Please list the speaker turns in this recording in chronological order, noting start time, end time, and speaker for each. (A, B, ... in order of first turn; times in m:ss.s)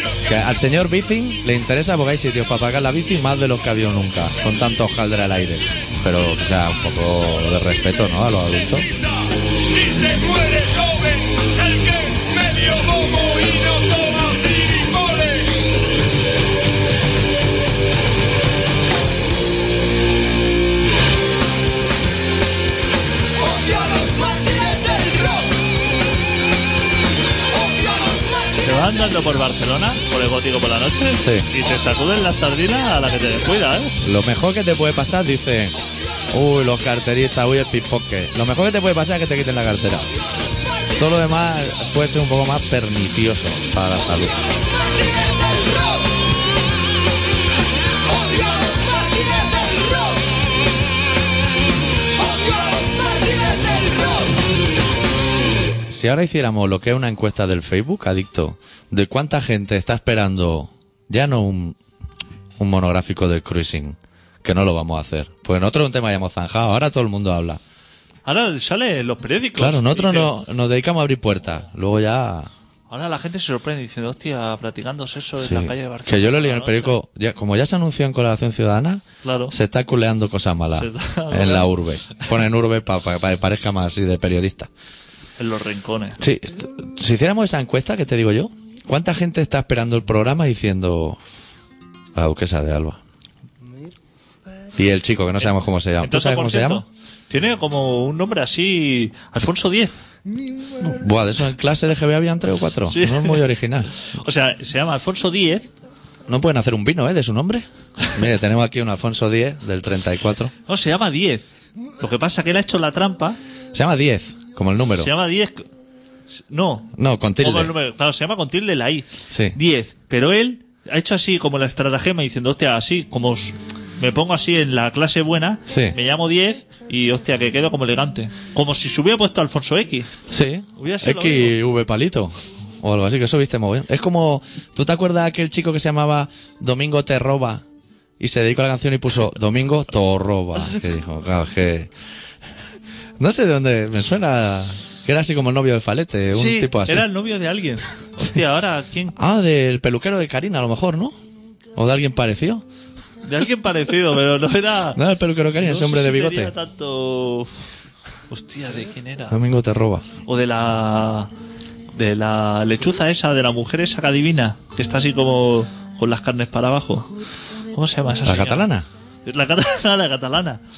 0:00.2-0:08.9 A
0:09.7-0:15.6 B
0:23.4-0:25.5 C
0:27.6-0:28.6 C
0:28.6-0:33.9 D
0:31.2-0:31.4 A
0:34.0-0:35.8 A
0:36.3-0:40.1 A
0:41.0-0:44.4 A
0:44.8-0:46.0 C
0:48.1-0:50.2 C
0:52.2-0:54.3 C
0:55.9-1:01.8 A
1:02.6-1:07.6 A
1:08.2-1:10.3 D
1:09.6-1:12.5 A
1:12.9-1:16.9 D
1:15.4-1:24.7 A
1:19.2-1:19.5 D
1:20.7-1:21.7 D
1:25.4-1:26.2 D
1:26.2-1:31.2 A
1:32.1-1:33.0 A
1:34.8-1:36.8 A
1:36.0-1:39.9 D
1:40.8-1:43.9 A
1:42.9-1:43.5 D
1:44.1-1:45.7 D
1:46.3-1:50.5 A
1:50.6-1:51.4 D
1:52.0-1:53.4 D
1:53.7-1:55.1 A
1:55.0-1:55.6 D
1:56.5-2:10.1 D
1:57.0-1:57.7 A
1:59.3-1:59.6 A
2:05.7-2:06.0 A
2:10.3-2:17.6 A
2:10.8-2:11.6 D
2:18.2-2:21.9 A
2:23.2-2:27.1 A
2:26.3-2:29.1 D
2:29.2-2:31.1 A
2:31.8-2:32.6 A
2:33.2-2:35.0 D
2:34.9-2:36.5 A
2:35.6-2:37.5 D
2:38.3-2:39.4 D
2:39.3-2:40.0 A
2:40.2-2:41.3 D
2:41.9-2:47.1 D
2:47.7-2:48.7 D
2:48.2-2:48.8 A
2:49.2-2:50.6 D